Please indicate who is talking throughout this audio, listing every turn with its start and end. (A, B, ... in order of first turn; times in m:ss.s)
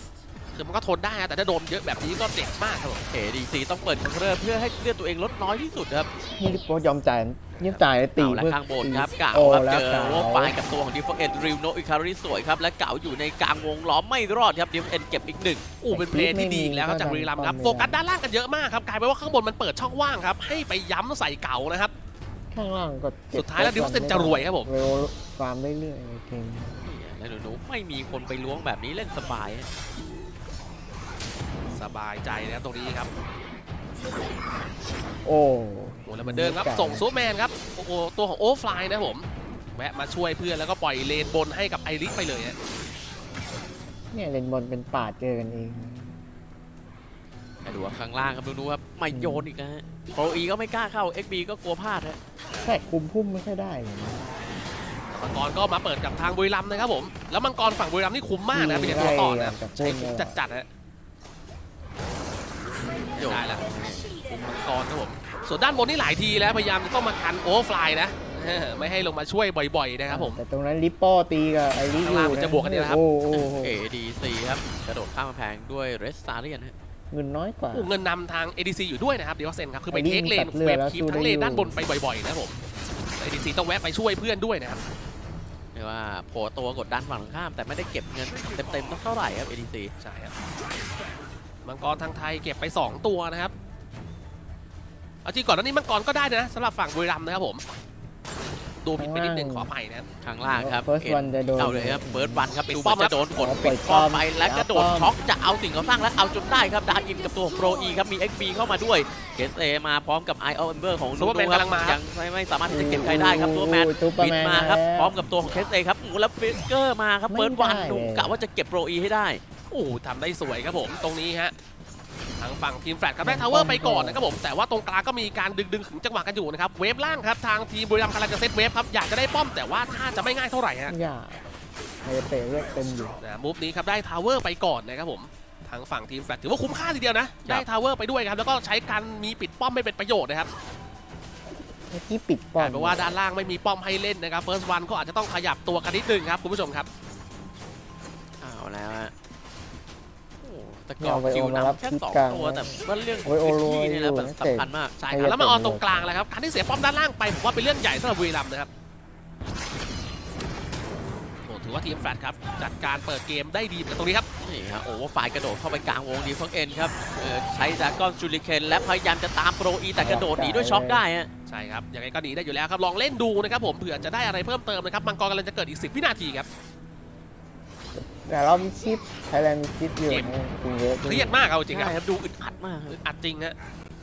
0:00.5-0:03.0 A
0:03.1-0:06.1 B
0:06.4-0:10.5 C
0:08.2-0:15.7 B
0:15.8-0:21.9 A
0:15.9-0:18.0 C
0:22.5-0:26.8 C
0:23.3-0:24.7 A
0:26.8-0:29.7 B
0:31.7-0:33.1 A
0:35.2-0:37.2 C
0:36.1-0:42.6 A
0:44.1-0:46.2 C
0:47.6-0:52.2 B
0:49.1-0:49.5 C
0:52.6-0:54.3 C
0:55.1-1:00.7 A
0:58.5-1:00.3 C
1:03.1-1:10.4 A
1:03.1-1:04.1 B
1:10.1-1:13.8 C
1:12.0-1:13.0 A
1:13.3-1:16.7 B
1:17.1-1:17.9 C
1:17.7-1:22.5 A
1:19.9-1:21.8 C
1:23.2-1:24.8 A
1:25.7-1:29.9 B
1:30.0-1:30.3 A
1:31.6-1:33.5 A
1:35.2-1:37.6 A
1:38.8-1:40.1 A
1:39.0-1:39.7 C
1:40.2-1:59.4 B
1:40.5-1:42.5 C
1:42.7-1:43.2 A
1:43.3-1:45.1 C
1:51.2-1:52.0 A
1:52.7-1:55.3 C
1:57.3-1:58.4 C
1:59.7-2:01.5 A
2:02.4-2:10.9 A
2:03.2-2:04.3 C
2:10.9-2:11.5 C
2:12.0-2:13.2 C
2:13.2-2:20.5 A
2:21.9-2:23.1 C
2:22.6-2:26.9 A
2:28.4-2:29.1 B
2:30.4-2:34.9 B
2:31.0-2:36.0 C
2:35.0-2:38.7 A
2:41.4-2:44.2 A
2:44.4-2:51.3 B
2:50.0-2:51.0 C
2:51.5-2:56.5 A
2:57.9-3:01.3 C
3:00.1-3:00.3 A
3:01.0-3:02.0 A
3:01.7-3:03.0 B
3:02.9-3:03.6 A